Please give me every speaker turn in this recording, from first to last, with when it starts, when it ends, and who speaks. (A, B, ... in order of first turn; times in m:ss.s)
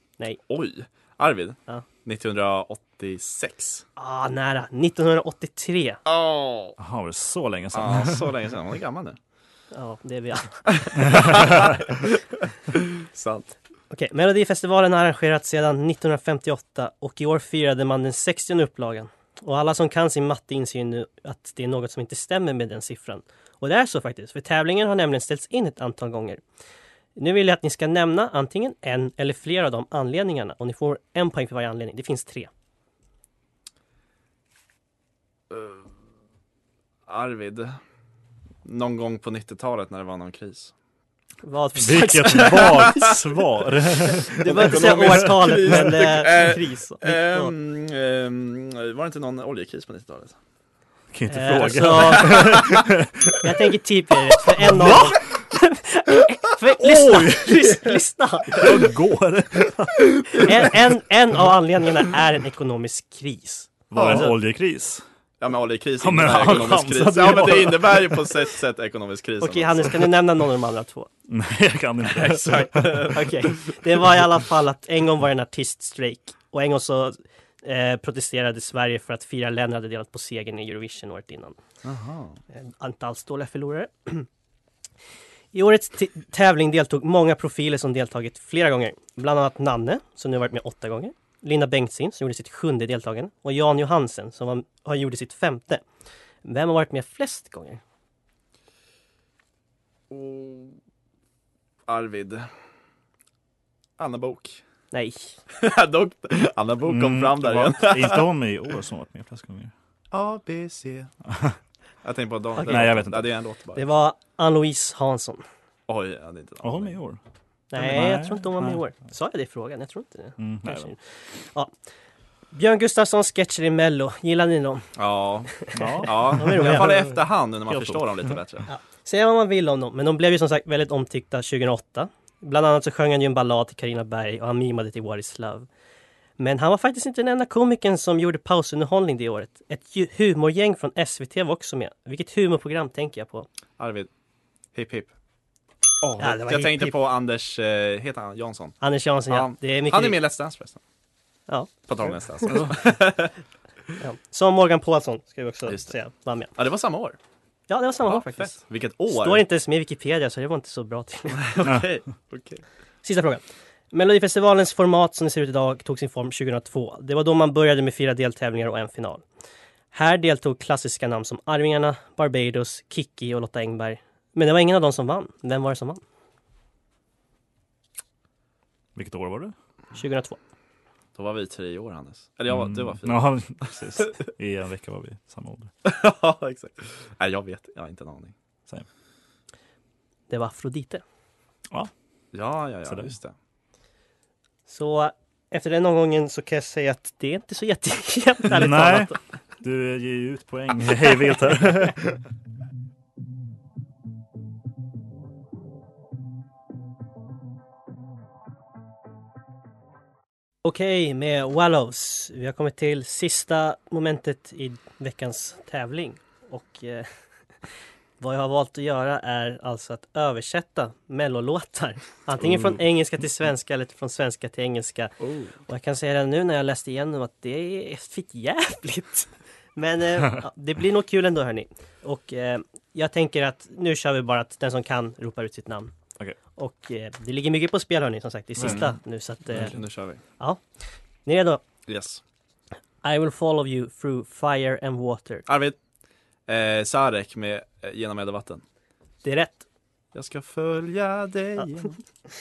0:00.5-0:03.8 A
0:04.0-0:06.0 B
0:06.1-0:06.8 A
0:06.8-0:08.3 C
0:07.7-0:09.2 A
0:09.7-0:11.0 B
0:10.8-0:12.2 A
0:12.8-0:13.5 A
0:13.9-0:26.4 B
0:27.2-0:32.5 B
0:35.5-0:35.8 A
0:37.1-0:37.8 A
0:38.6-0:40.7 A
0:41.4-0:43.0 B
0:41.8-0:45.3 C
0:42.5-0:43.1 A
0:44.3-0:47.5 B
0:44.3-0:50.4 A
0:51.1-0:53.5 C
0:51.3-0:52.8 B
0:51.9-0:52.7 A
0:53.4-0:58.8 B
0:54.6-0:55.2 C
0:56.8-0:58.0 C
0:58.5-1:00.8 C
1:00.3-1:04.4 B
1:03.9-1:05.0 C
1:04.0-1:04.3 A
1:05.4-1:10.1 A
1:06.0-1:08.3 C
1:09.4-1:11.1 B
1:11.3-1:13.2 C
1:12.0-1:13.3 A
1:13.1-1:21.6 B
1:21.8-1:22.4 A
1:22.5-1:24.3 B
1:25.5-1:35.8 B
1:36.4-1:37.8 B
1:40.1-1:40.8 A
1:41.9-1:42.5 A
1:44.0-1:44.6 A
1:44.9-1:45.4 B
1:45.6-1:48.3 A
1:46.8-1:49.7 C
1:50.1-1:51.1 A
1:51.3-1:51.6 C
1:52.0-1:53.9 A
1:52.6-1:52.8 B
1:52.6-1:53.3 C
1:53.8-1:55.4 B
1:55.9-1:57.0 A
1:56.6-1:57.2 C
1:57.7-2:01.7 B
1:57.7-1:58.8 C
2:00.4-2:00.9 C
2:02.5-2:04.9 B
2:05.0-2:08.7 A
2:05.7-2:08.4 C
2:05.8-2:07.1 B
2:08.7-2:15.7 B
2:16.4-2:23.5 B
2:23.8-2:24.1 A
2:24.7-2:25.1 A
2:26.0-2:30.8 A
2:26.2-2:27.0 B
2:28.8-2:30.2 B
2:31.9-2:33.3 A
2:32.5-2:32.8 C
2:34.0-2:36.5 B
2:35.7-2:35.9 A
2:36.6-2:37.2 A
2:37.7-2:41.5 B
2:38.1-2:39.4 A
2:41.4-2:42.6 A
2:41.6-2:41.9 C
2:43.0-2:49.2 B
2:49.9-2:56.0 B
2:59.0-2:59.5 C
3:00.0-3:00.4 B
3:01.2-3:04.1 A
3:02.5-3:05.7 C
3:05.8-3:08.3 A
3:10.3-3:11.0 B
3:12.3-3:13.3 A
3:12.8-3:13.2 C
3:14.7-3:19.2 B
3:18.5-3:22.1 C
3:30.6-3:37.1 B
3:38.2-3:45.1 B
3:45.2-3:45.5 A
3:45.7-3:55.9 B
3:56.6-3:59.8 B
3:58.6-3:59.0 A
3:59.5-4:00.2 A
4:01.2-4:01.6 B
4:01.9-4:02.2 A
4:03.0-4:05.4 B
4:05.5-4:05.8 A
4:06.5-4:08.6 A
4:09.2-4:09.6 B
4:10.1-4:12.0 A